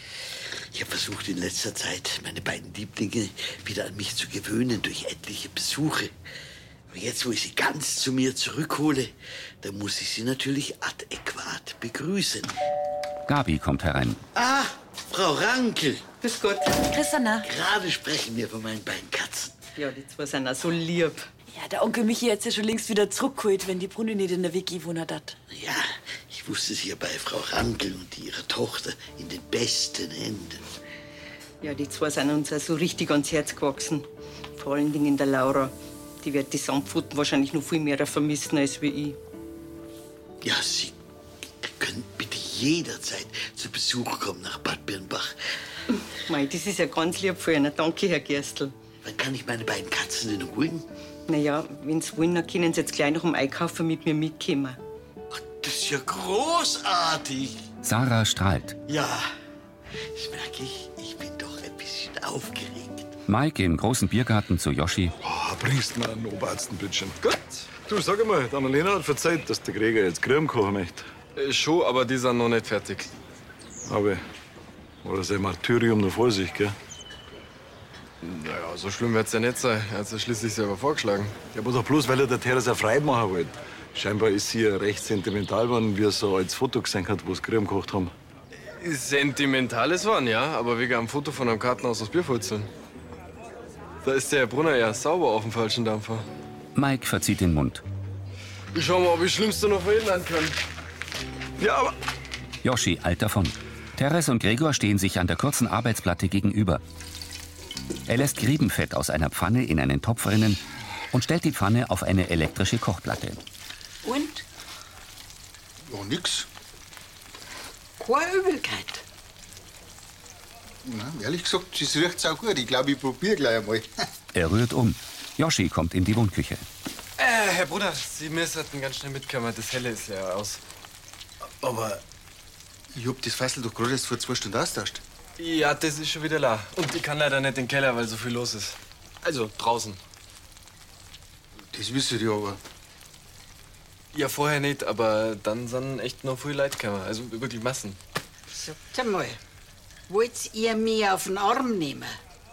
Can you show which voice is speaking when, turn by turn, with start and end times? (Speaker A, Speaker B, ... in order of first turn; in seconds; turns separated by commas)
Speaker A: 0.7-6.1, Speaker A: 6.9-12.6, Speaker B: 13.3-14.2, Speaker A: 14.3-16.0, Speaker C: 16.2-16.8, Speaker D: 16.8-17.4, Speaker A: 17.4-19.6, Speaker C: 19.8-21.3, Speaker D: 21.5-25.4, Speaker A: 25.5-30.6, Speaker C: 31.6-39.2, Speaker A: 40.4-41.0, Speaker A: 41.6-45.4, Speaker C: 46.3-48.7, Speaker A: 49.0-50.9, Speaker C: 51.3-54.8, Speaker A: 55.3-57.6, Speaker B: 57.8-58.8, Speaker A: 58.9-59.2, Speaker A: 60.1-63.2, Speaker B: 63.3-65.1, Speaker E: 65.2-67.2, Speaker F: 67.2-67.6, Speaker E: 67.7-71.1, Speaker F: 71.3-73.1, Speaker E: 73.8-74.2, Speaker E: 75.0-76.7, Speaker F: 78.2-81.5, Speaker E: 81.5-88.1, Speaker F: 88.6-92.7, Speaker F: 94.0-96.3, Speaker B: 96.7-97.8, Speaker F: 98.7-100.5, Speaker F: 101.6-101.9, Speaker B: 102.6-106.8, Speaker B: 108.1-113.4, Speaker G: 114.0-114.4, Speaker H: 115.9-116.5, Speaker G: 118.0-119.0, Speaker H: 120.8-123.9, Speaker B: 124.3-126.7, Speaker F: 127.2-130.6, Speaker H: 131.6-132.0, Speaker H: 132.9-135.0, Speaker F: 135.4-140.0, Speaker H: 141.7-142.6, Speaker F: 144.1-148.0, Speaker G: 148.5-149.4, Speaker G: 150.1-152.2